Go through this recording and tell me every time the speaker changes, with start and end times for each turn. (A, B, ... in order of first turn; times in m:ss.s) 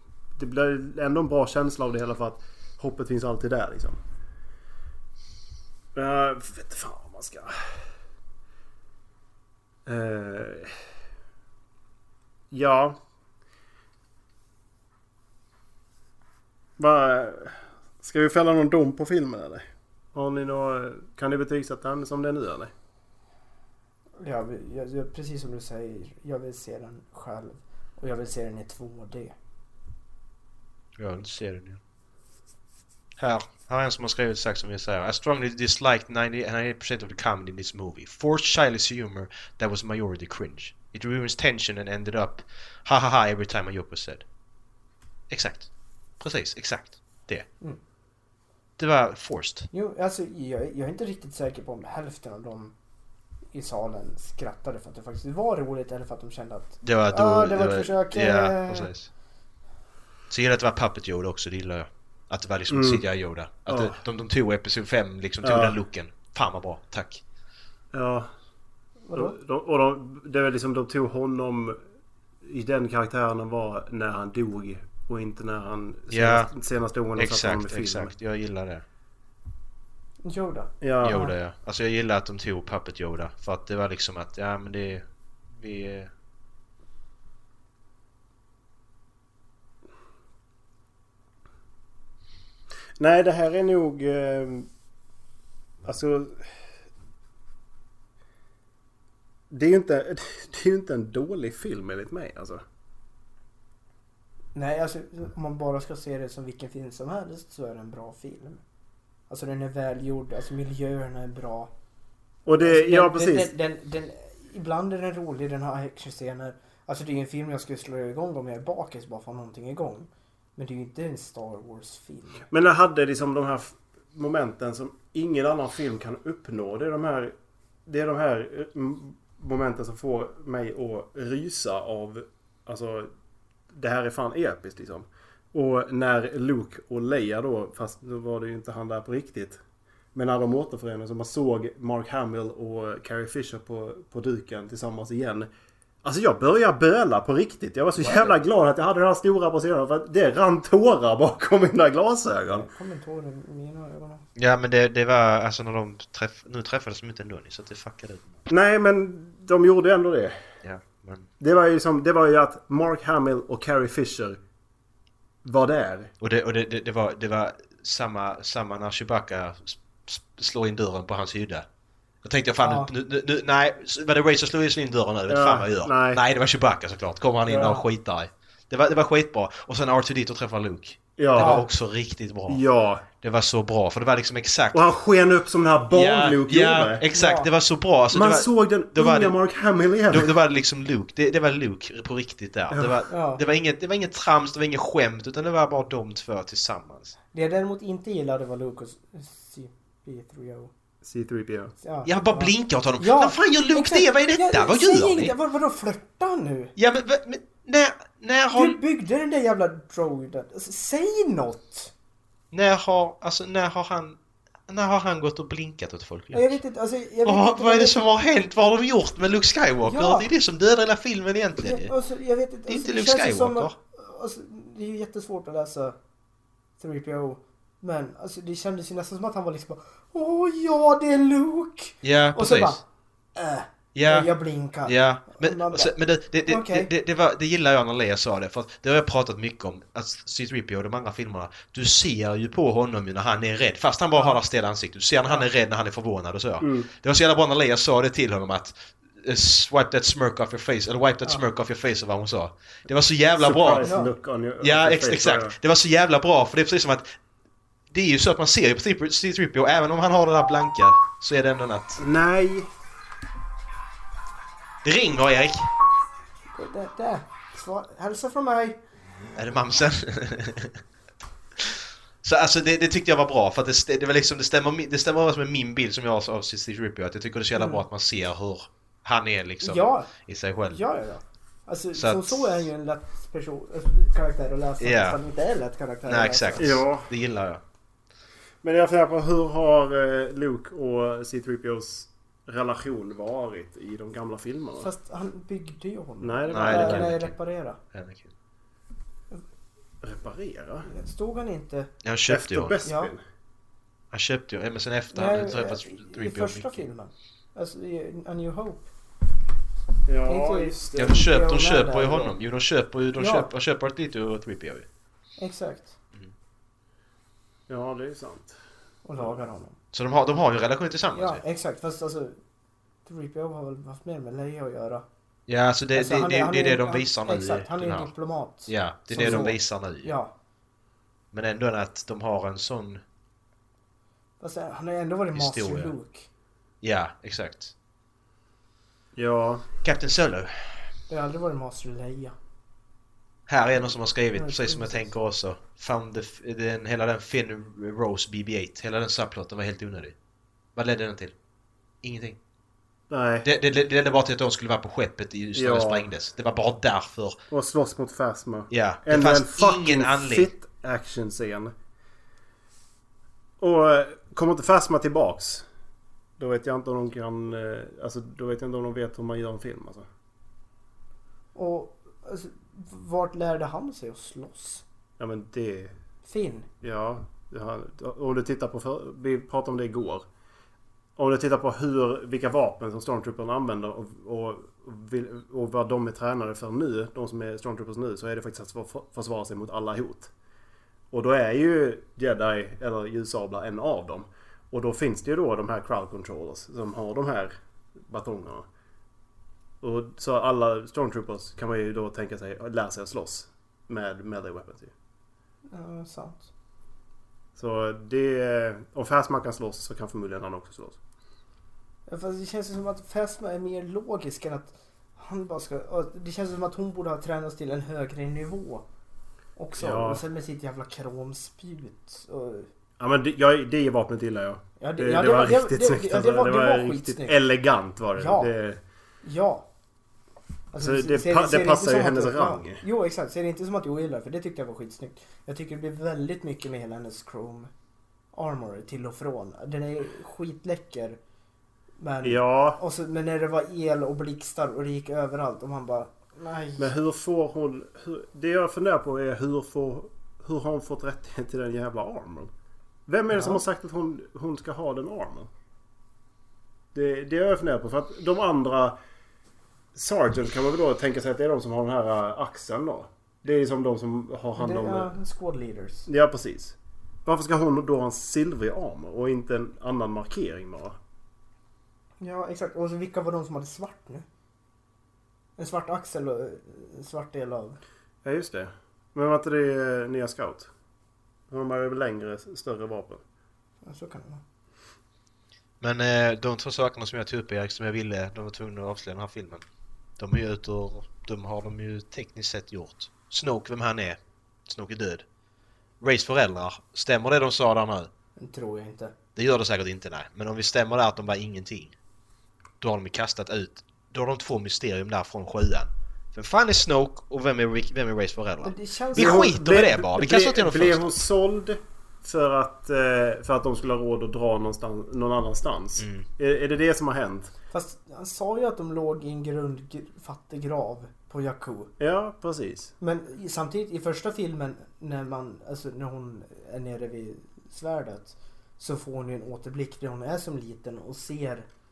0:00.4-0:04.0 A
0:06.0-0:07.6 A
0:09.9-0:10.7 A
0:12.5-0:13.0 A
0:16.8-0:22.7 A
0:24.2-0:29.4 B
0:31.0-0:31.8 C
0:33.2-0:44.2 C
0:45.3-0:45.7 C
0:46.2-0:47.5 C
0:48.8-0:49.7 C
0:49.7-0:52.7 B
0:53.5-0:58.9 B
0:56.8-0:59.1 C
1:00.3-1:07.2 C
1:02.7-1:03.0 A
1:03.7-1:04.0 A
1:05.4-1:05.8 A
1:07.9-1:08.3 A
1:09.0-1:09.4 B
1:09.1-1:11.8 A
1:12.4-1:18.1 A
1:16.1-1:16.5 C
1:17.2-1:18.8 C
1:20.2-1:21.3 B
1:20.8-1:21.2 A
1:21.0-1:25.0 C
1:25.6-1:26.1 C
1:33.0-1:34.7 A
1:35.8-1:36.5 A
1:39.5-1:42.6 A
1:44.6-1:48.6 B
1:49.3-1:51.7 B
1:52.4-1:53.5 A
1:52.6-2:02.4 B
2:02.5-2:07.4 A
2:07.9-2:13.1 A
2:13.7-2:19.6 A
2:20.2-2:25.5 A
2:26.0-2:32.7 A
2:28.0-2:28.3 B
2:32.6-2:34.2 B
2:34.4-2:38.4 C
2:38.5-2:40.4 A
2:40.6-2:41.3 C
2:41.4-2:44.4 A
2:45.4-2:46.1 A
2:46.2-2:51.7 C
2:52.2-3:02.6 C
2:52.6-2:52.9 B
2:55.3-2:56.2 A
2:57.5-2:57.8 A
2:57.5-2:57.8 B
3:01.2-3:01.6 A
3:01.4-3:01.6 B
3:02.5-3:03.0 A
3:03.2-3:04.8 C
3:04.7-3:07.0 A
3:05.9-3:09.4 C
3:07.1-3:07.5 B
3:08.1-3:10.3 A
3:10.1-3:17.2 C
3:12.7-3:13.0 A
3:13.1-3:13.4 B
3:17.3-3:20.7 B
3:21.0-3:21.7 A
3:21.8-3:26.7 B
3:22.0-3:25.3 C
3:26.8-3:28.8 C
3:28.5-3:31.9 B
3:32.5-3:34.2 C
3:34.7-3:36.6 C
3:36.3-3:38.0 B
3:37.2-3:41.9 C
3:39.8-3:40.3 B
3:41.6-3:46.0 B
3:42.7-3:43.7 C
3:46.8-3:52.8 B
3:52.0-3:52.8 C
3:53.4-3:55.9 B
3:54.0-3:54.3 C
3:54.8-4:13.9 C
3:56.5-3:56.9 B
4:06.6-4:06.9 A
4:13.4-4:15.6 A
4:13.8-4:14.1 B
4:14.6-4:17.1 C
4:17.9-4:22.0 C
4:22.0-4:22.7 A
4:24.8-4:25.7 C
4:26.6-4:28.8 B
4:29.4-4:30.8 C
4:31.6-4:40.8 C
4:37.6-4:37.8 B
4:39.6-4:40.1 B
4:40.7-4:46.8 B
4:42.0-4:42.5 C
4:44.8-4:45.2 C
4:46.1-4:47.6 C
4:46.6-4:47.1 A
4:48.6-4:54.9 A
4:54.8-4:57.8 B
4:56.2-4:57.2 A
4:56.5-4:57.4 C
4:57.9-4:58.3 C
5:00.0-5:00.9 A
5:00.9-5:01.9 B
5:02.0-5:02.8 C
5:02.3-5:03.2 A
5:02.8-5:03.1 B
5:04.1-5:06.8 C
5:05.1-5:08.9 B
5:10.1-5:11.3 A
5:10.3-5:12.3 B
5:11.0-5:14.9 C
5:13.2-5:13.5 B
5:15.4-5:16.0 B
5:17.7-5:18.6 A
5:19.0-5:19.8 B
5:19.9-5:21.4 C
5:21.1-5:22.4 B
5:23.0-5:25.0 B
5:25.5-5:28.1 C
5:25.9-5:30.3 B
5:28.7-5:30.1 C
5:29.2-5:29.5 A
5:31.3-5:33.0 C
5:34.4-5:36.3 B
5:35.4-5:36.0 C
5:36.8-5:37.7 C
5:39.2-5:39.7 A
5:39.8-5:40.8 C
5:41.1-5:42.4 B
5:43.5-5:50.1 C
5:44.4-5:45.1 B
5:50.8-5:51.3 C
5:52.0-5:52.4 C
5:53.1-5:53.5 A
5:53.4-5:57.4 C
5:55.6-5:56.1 A
5:57.5-6:01.7 A
5:58.7-6:00.5 C
6:03.6-6:05.7 A
6:06.4-6:10.1 A
6:11.6-6:14.8 B
6:15.2-6:16.0 A
6:16.2-6:16.7 B
6:16.8-6:20.3 A
6:21.2-6:30.3 A
6:31.1-6:38.7 A
6:39.8-6:44.9 A
6:45.7-6:46.5 B
6:47.6-6:51.0 A
6:52.1-6:58.9 B
6:59.6-7:02.7 B
6:59.8-7:00.2 A
7:03.0-7:08.8 A
7:04.8-7:07.4 B
7:08.2-7:08.5 B
7:09.2-7:09.7 B
7:10.7-7:17.7 B
7:10.8-7:12.8 A
7:18.3-7:21.2 B
7:22.0-7:26.9 B
7:22.2-7:22.8 A
7:26.8-7:32.5 A
7:33.1-7:35.5 A
7:33.3-7:33.6 B
7:36.9-7:39.0 A
7:39.9-7:45.1 A
7:44.6-7:46.1 B
7:46.1-7:51.0 A
7:52.2-7:54.2 B
7:55.6-7:57.8 B
7:58.2-8:00.7 A
8:01.5-8:03.2 A
8:03.8-8:04.4 B
8:05.8-8:09.6 C
8:10.2-8:15.2 C
8:16.0-8:18.1 C
8:18.4-8:19.1 B
8:19.4-8:21.9 C
8:22.8-8:31.1 C
8:28.6-8:29.5 B
8:29.1-8:37.5 A
8:36.0-8:36.3 C
8:37.7-8:41.9 B
8:42.0-8:42.9 A
8:43.0-8:51.7 B